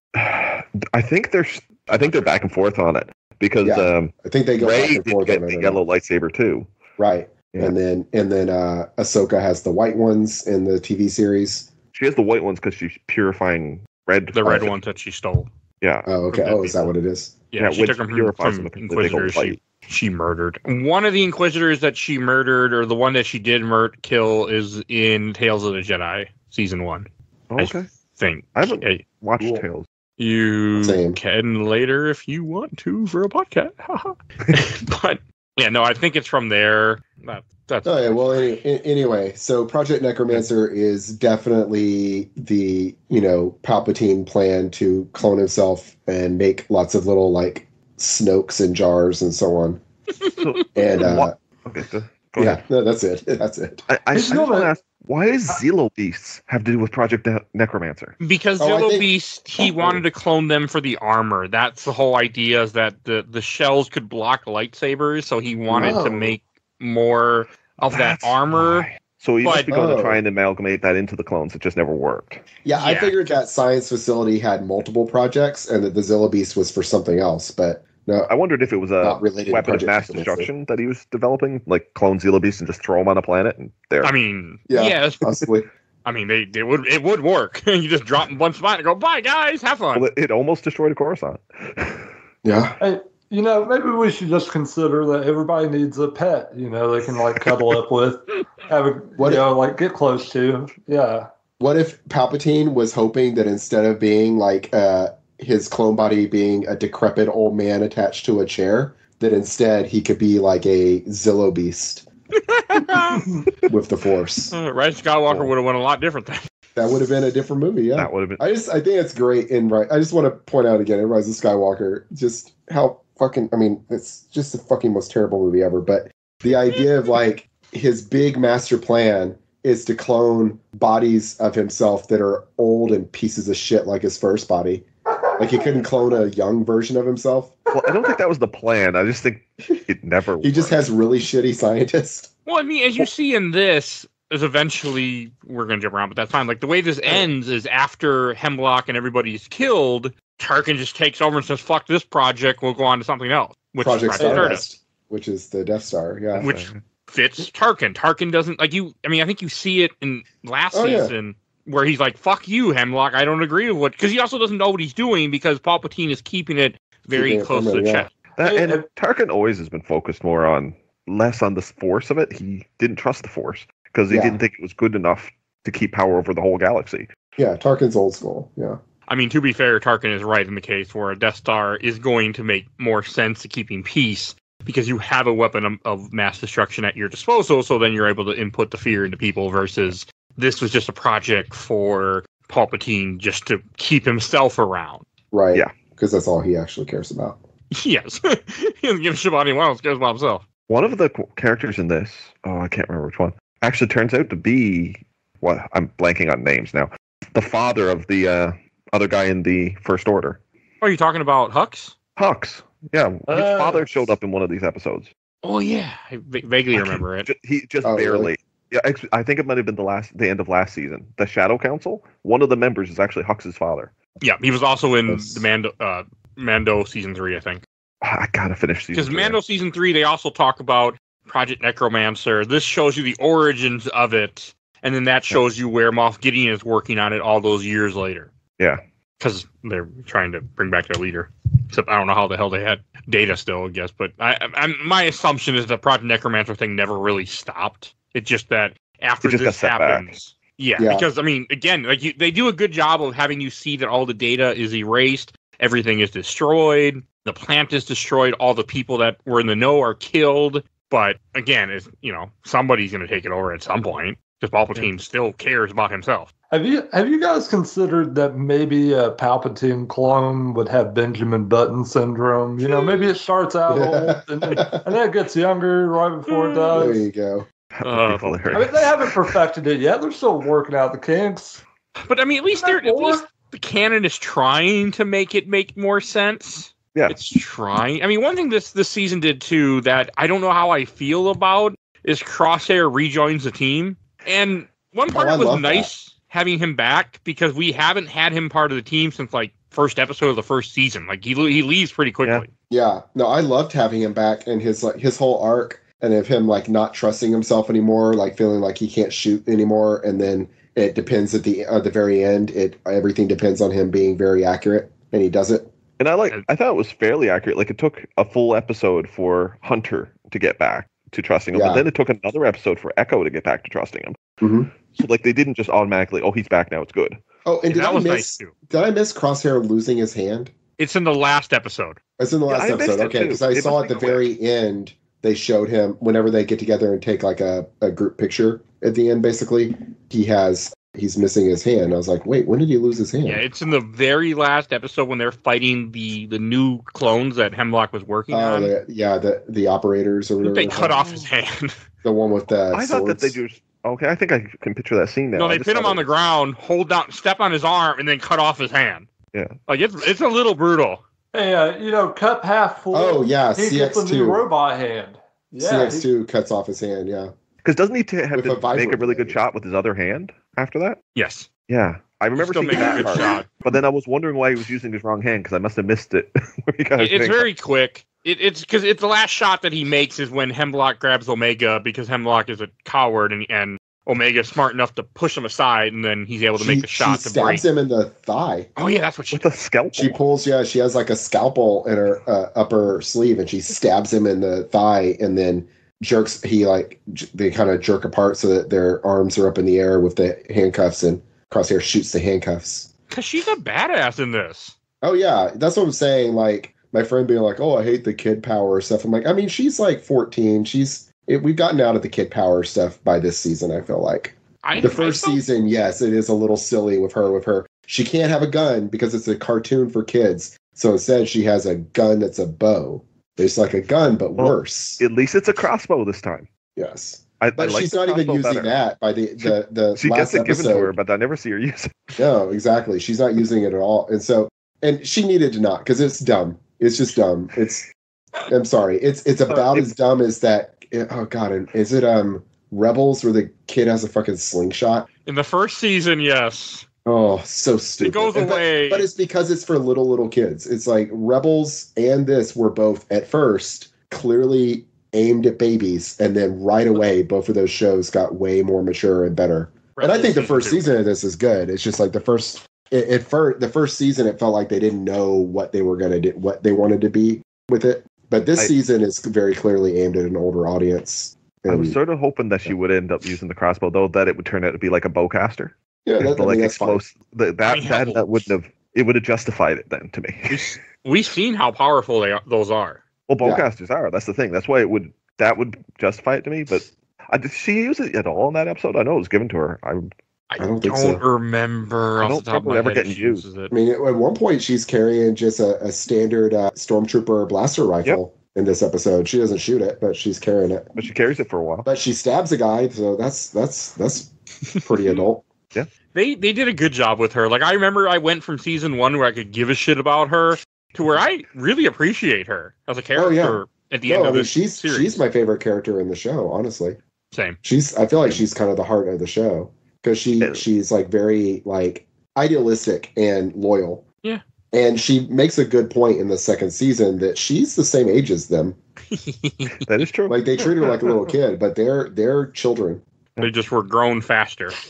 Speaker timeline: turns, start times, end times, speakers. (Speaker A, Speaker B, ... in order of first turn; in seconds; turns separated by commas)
Speaker A: 0.1-6.7, Speaker B: 3.6-5.8, Speaker B: 7.0-11.7, Speaker A: 11.9-14.7, Speaker C: 14.3-15.5, Speaker A: 15.8-16.1, Speaker B: 16.1-17.4, Speaker C: 16.3-16.9, Speaker C: 17.5-27.1, Speaker A: 17.6-19.6, Speaker A: 27.5-27.9, Speaker C: 27.6-29.0, Speaker A: 28.6-29.8, Speaker C: 30.2-38.6, Speaker B: 30.8-31.2, Speaker B: 37.8-49.8, Speaker A: 50.4-52.6, Speaker B: 50.7-51.4, Speaker B: 52.4-53.9, Speaker A: 53.9-58.1, Speaker D: 54.1-54.7, Speaker C: 58.2-68.9, Speaker B: 58.6-59.1, Speaker B: 65.7-66.0, Speaker D: 65.8-66.3, Speaker A: 67.9-72.4, Speaker C: 69.4-69.7, Speaker B: 69.5-70.2, Speaker B: 72.6-78.3, Speaker C: 72.8-73.3, Speaker A: 78.3-84.1, Speaker B: 79.0-80.5, Speaker C: 84.0-85.2, Speaker B: 84.7-85.7, Speaker C: 86.0-90.0, Speaker A: 89.9-92.1, Speaker B: 92.4-92.8, Speaker D: 92.8-101.3, Speaker B: 99.2-99.5, Speaker B: 101.6-112.0, Speaker C: 112.4-113.2, Speaker D: 113.2-113.4, Speaker B: 113.7-114.5, Speaker C: 114.5-116.5, Speaker B: 116.8-134.8, Speaker A: 118.0-118.4, Speaker B: 135.4-137.6, Speaker A: 137.7-140.8, Speaker B: 140.4-142.3, Speaker C: 142.4-154.7, Speaker B: 153.8-156.5, Speaker D: 154.2-154.5, Speaker A: 156.3-156.8, Speaker C: 156.4-168.1, Speaker B: 160.7-161.1, Speaker B: 167.1-168.1, Speaker A: 168.4-177.1, Speaker D: 168.4-168.8, Speaker B: 174.1-174.4, Speaker B: 177.4-178.8, Speaker C: 179.1-195.0, Speaker B: 195.3-197.4, Speaker C: 197.7-200.4, Speaker A: 200.7-210.4, Speaker C: 210.8-211.9, Speaker A: 212.2-215.1, Speaker D: 213.3-214.2, Speaker C: 215.4-217.3, Speaker A: 216.7-223.9, Speaker B: 217.8-218.3, Speaker C: 224.2-227.6, Speaker A: 228.0-229.4, Speaker C: 228.9-238.3, Speaker C: 239.2-266.3, Speaker A: 249.2-250.1, Speaker B: 250.8-251.1, Speaker D: 266.5-277.0, Speaker C: 272.6-273.1, Speaker B: 273.7-274.9, Speaker C: 276.3-276.8, Speaker B: 276.7-277.4, Speaker A: 277.7-279.3, Speaker C: 277.8-278.7, Speaker D: 278.5-281.6, Speaker C: 282.0-302.5, Speaker D: 282.6-283.2, Speaker B: 295.1-295.9, Speaker B: 302.7-315.7, Speaker A: 316.0-324.2, Speaker B: 321.5-321.8, Speaker B: 324.4-324.7, Speaker A: 324.9-327.2, Speaker B: 327.4-330.5, Speaker C: 327.7-328.5, Speaker C: 330.8-332.0, Speaker B: 332.2-343.4, Speaker A: 332.5-334.2, Speaker C: 343.2-348.7, Speaker B: 348.3-351.0, Speaker C: 350.4-351.8, Speaker A: 350.7-351.3, Speaker B: 352.0-353.4, Speaker A: 352.7-356.0, Speaker C: 355.4-359.1, Speaker C: 359.7-361.0, Speaker D: 361.3-366.1, Speaker B: 362.9-364.5, Speaker B: 365.6-367.3, Speaker A: 367.6-371.0, Speaker B: 368.3-369.4, Speaker C: 371.1-371.5, Speaker A: 371.7-377.5, Speaker C: 372.3-373.5, Speaker C: 377.0-387.6, Speaker B: 386.6-388.7, Speaker C: 388.8-389.4, Speaker A: 389.3-390.2, Speaker B: 389.9-402.9, Speaker C: 403.1-404.7, Speaker B: 405.0-425.0, Speaker C: 414.6-415.4, Speaker A: 424.4-426.5, Speaker B: 426.8-430.9, Speaker A: 427.4-428.7, Speaker A: 429.4-432.1, Speaker B: 432.1-437.9, Speaker B: 438.5-445.1, Speaker A: 439.5-439.8, Speaker C: 445.2-446.8, Speaker B: 447.1-471.9, Speaker C: 448.0-449.1, Speaker C: 459.9-460.9, Speaker A: 471.7-480.8, Speaker B: 476.0-477.0, Speaker C: 477.6-478.5, Speaker C: 480.5-483.0, Speaker A: 483.3-490.1, Speaker C: 490.5-493.7, Speaker B: 490.6-491.2, Speaker A: 492.2-493.4, Speaker B: 493.7-500.9, Speaker A: 500.9-501.9, Speaker B: 501.8-504.3, Speaker C: 504.8-505.2, Speaker B: 504.8-505.4, Speaker C: 506.1-515.2, Speaker B: 513.1-517.0, Speaker C: 517.3-517.6, Speaker B: 517.6-524.0, Speaker B: 524.7-528.8, Speaker C: 529.1-529.9, Speaker A: 529.8-531.1, Speaker B: 530.3-533.0, Speaker C: 533.4-534.7